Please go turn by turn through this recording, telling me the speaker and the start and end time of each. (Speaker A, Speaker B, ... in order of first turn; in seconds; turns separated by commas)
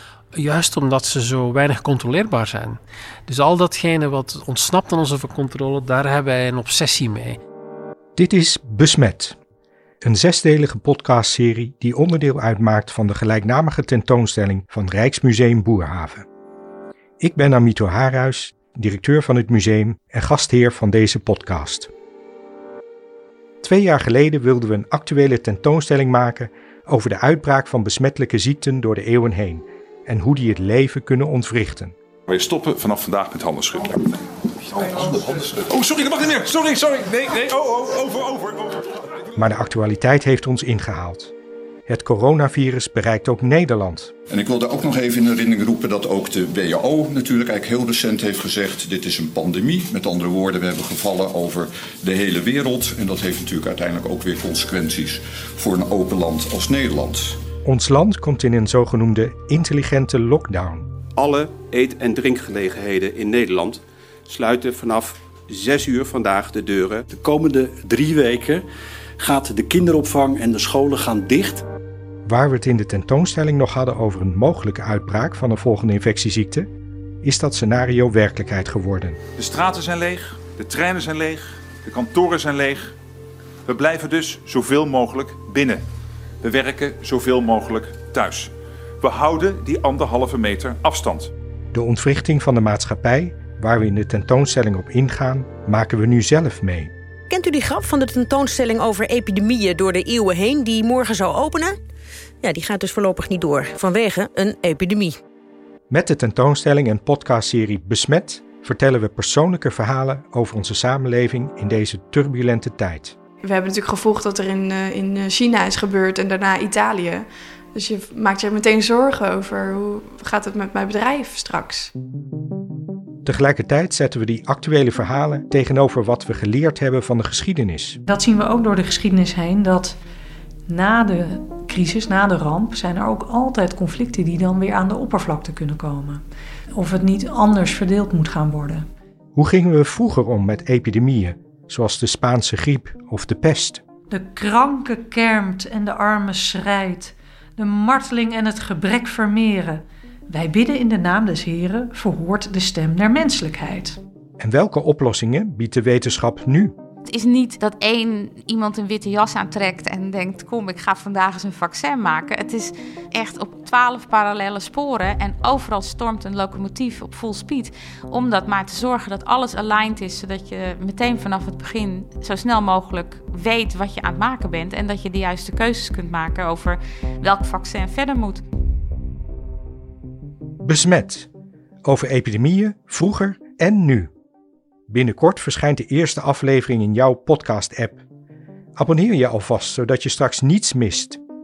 Speaker A: 0.3-7.4, Speaker B: 8.2-9.4, Speaker B: 10.0-16.2, Speaker B: 17.2-21.9, Speaker B: 23.6-31.9, Speaker C: 32.3-34.0, Speaker C: 34.8-38.8, Speaker B: 39.4-41.3, Speaker B: 41.9-44.1, Speaker D: 44.3-57.4, Speaker B: 57.6-60.9, Speaker E: 61.1-67.0, Speaker F: 67.1-68.6, Speaker F: 69.2-71.6, Speaker B: 72.2-76.7, Speaker B: 77.2-79.2, Speaker C: 79.4-82.9, Speaker C: 83.7-85.8, Speaker C: 86.4-88.5, Speaker C: 89.0-91.3, Speaker B: 91.7-96.9, Speaker G: 97.3-101.8, Speaker G: 102.4-105.2, Speaker B: 105.9-113.1, Speaker H: 113.4-121.9, Speaker B: 123.2-128.0, Speaker I: 128.1-130.0, Speaker I: 130.7-136.2, Speaker I: 136.7-138.9, Speaker B: 139.3-143.8, Speaker I: 144.1-154.0, Speaker B: 154.4-156.7, Speaker J: 157.1-178.4, Speaker B: 180.6-181.3, Speaker B: 181.8-184.1, Speaker B: 184.9-188.0, Speaker B: 188.8-191.2